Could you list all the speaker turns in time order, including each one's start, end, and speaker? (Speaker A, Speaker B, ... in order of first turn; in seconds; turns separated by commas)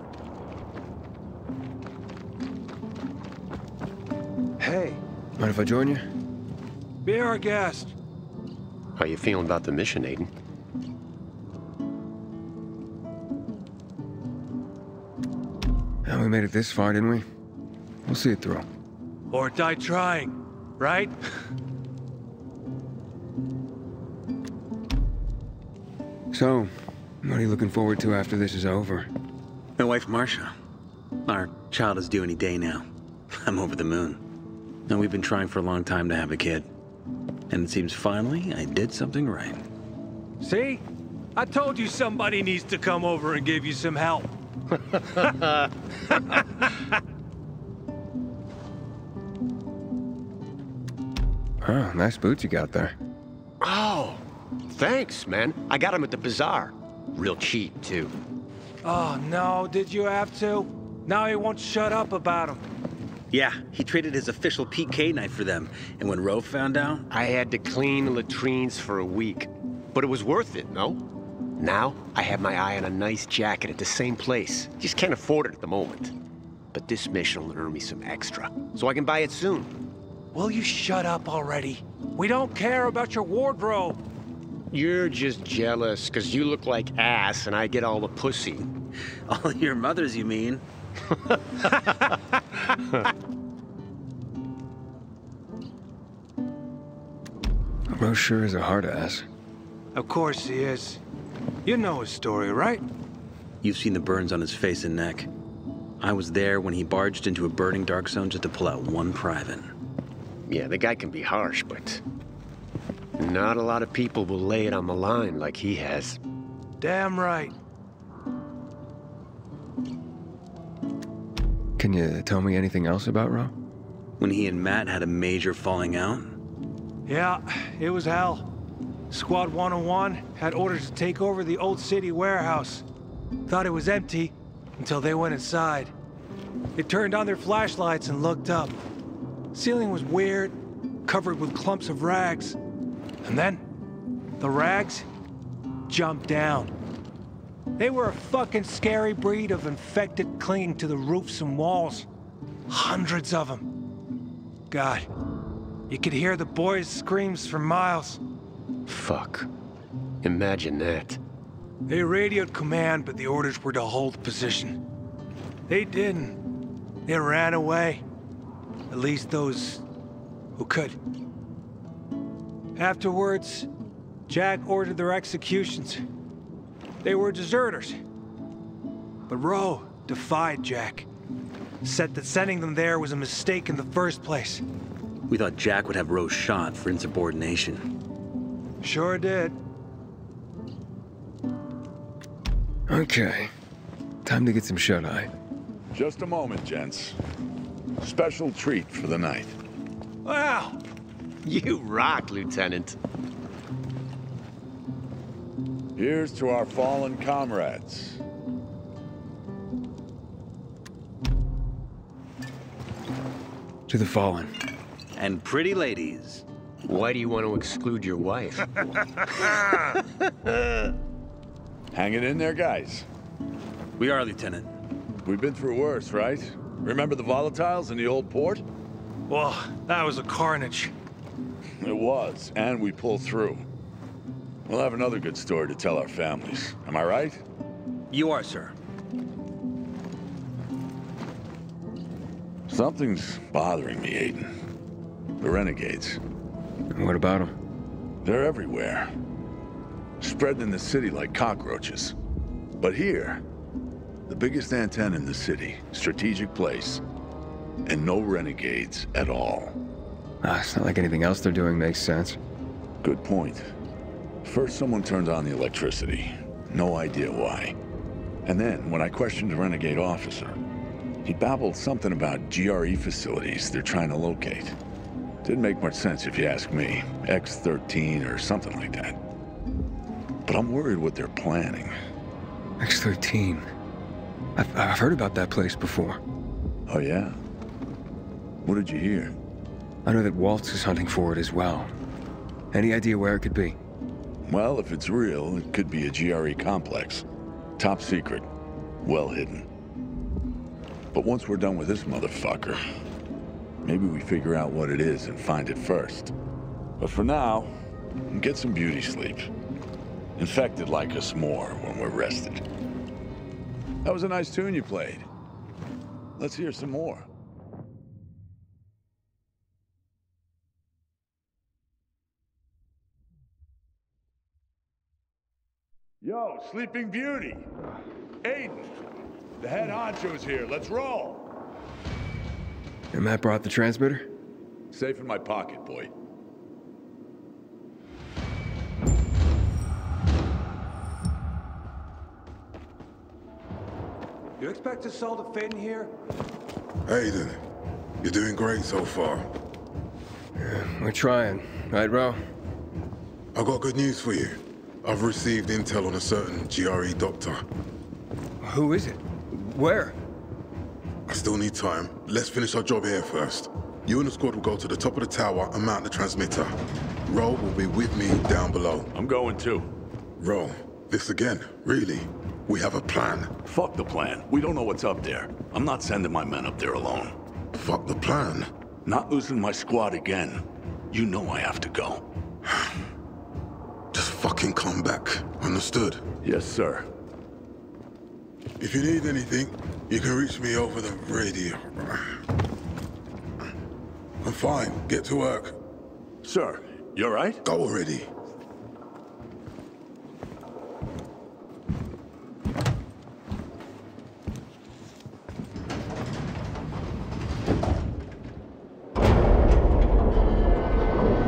Speaker A: 4.6-5.0, Speaker B: 5.4-6.0, Speaker A: 7.0-7.9, Speaker C: 8.9-10.3, Speaker B: 16.0-17.2, Speaker B: 18.1-18.6, Speaker A: 19.3-21.1, Speaker B: 26.3-29.1, Speaker D: 29.8-30.5, Speaker D: 31.2-32.9, Speaker D: 33.4-34.2, Speaker D: 34.9-36.7, Speaker D: 37.5-39.6, Speaker A: 40.4-44.3, Speaker B: 51.6-52.9, Speaker C: 53.6-58.1, Speaker A: 58.8-62.6, Speaker D: 63.3-67.0, Speaker C: 67.1-71.0, Speaker C: 71.6-76.1, Speaker C: 76.7-79.7, Speaker A: 80.3-84.0, Speaker C: 84.7-88.7, Speaker D: 89.3-90.6, Speaker B: 97.9-99.2, Speaker A: 99.9-101.0, Speaker A: 101.6-102.8, Speaker D: 103.6-105.3, Speaker D: 106.0-109.7, Speaker C: 110.5-112.0, Speaker C: 113.2-116.2, Speaker A: 116.8-117.5, Speaker B: 121.8-123.5, Speaker D: 124.2-126.4, Speaker A: 127.1-128.5, Speaker A: 129.1-132.8, Speaker A: 133.5-135.9, Speaker A: 136.8-138.8, Speaker A: 139.5-142.6, Speaker A: 143.2-143.6, Speaker A: 144.4-145.1, Speaker A: 145.9-146.7, Speaker A: 147.8-152.1, Speaker A: 152.7-153.7, Speaker A: 154.7-155.1, Speaker A: 155.9-158.2, Speaker C: 158.9-159.5, Speaker C: 160.2-161.2, Speaker A: 161.9-164.8, Speaker A: 165.7-166.4, Speaker A: 167.1-168.0, Speaker A: 168.9-169.8, Speaker A: 170.5-170.9, Speaker A: 172.8-173.7, Speaker A: 174.3-176.0, Speaker A: 177.0-178.0, Speaker A: 179.3-181.1, Speaker A: 181.8-184.6, Speaker D: 185.3-187.8, Speaker A: 188.8-189.6, Speaker B: 192.9-193.5, Speaker B: 194.2-195.3, Speaker E: 195.9-197.2, Speaker E: 198.0-199.6, Speaker A: 200.2-200.8, Speaker C: 201.4-203.0, Speaker E: 205.9-208.2, Speaker B: 213.9-214.5, Speaker D: 215.1-216.4, Speaker C: 216.9-218.8, Speaker E: 221.9-223.1, Speaker D: 224.0-224.7, Speaker E: 225.2-228.6, Speaker A: 229.3-230.9, Speaker E: 231.8-233.6, Speaker E: 234.7-237.4, Speaker D: 238.1-238.7, Speaker E: 242.7-244.5, Speaker E: 245.4-246.2, Speaker B: 246.9-247.5, Speaker E: 248.2-249.1, Speaker E: 250.2-252.1, Speaker E: 252.8-253.4, Speaker E: 254.3-257.0, Speaker E: 257.9-259.7, Speaker B: 260.4-262.4, Speaker E: 263.0-263.7, Speaker E: 264.4-267.8, Speaker E: 268.4-270.6, Speaker E: 271.2-274.8, Speaker E: 275.4-279.2, Speaker E: 280.4-281.9, Speaker B: 282.8-283.7, Speaker B: 284.6-286.2, Speaker E: 286.9-287.4, Speaker E: 288.6-289.3, Speaker B: 290.0-291.9, Speaker B: 292.7-293.8, Speaker E: 294.4-297.2, Speaker E: 297.8-298.5, Speaker E: 299.0-299.7, Speaker E: 301.1-302.8, Speaker E: 303.8-306.3, Speaker E: 307.0-307.7, Speaker E: 308.3-309.5, Speaker E: 310.4-312.6, Speaker E: 314.0-315.3, Speaker E: 316.4-317.3, Speaker E: 326.2-327.7, Speaker E: 328.4-329.0, Speaker E: 329.6-331.5, Speaker B: 333.1-334.3, Speaker E: 334.9-336.1, Speaker A: 344.6-346.1, Speaker F: 347.1-347.6, Speaker F: 348.2-349.5, Speaker B: 350.6-352.4, Speaker F: 353.5-357.6, Speaker B: 358.6-360.2, Speaker F: 361.3-366.7, Speaker F: 367.2-369.1, Speaker E: 369.1-369.9, Speaker F: 370.4-373.5, Speaker E: 373.6-377.3, Speaker F: 377.7-378.7, Speaker E: 379.1-382.2, Speaker F: 384.1-386.2, Speaker E: 386.4-387.1, Speaker F: 388.8-392.4, Speaker F: 394.4-395.8, Speaker E: 396.4-397.6, Speaker F: 397.6-398.3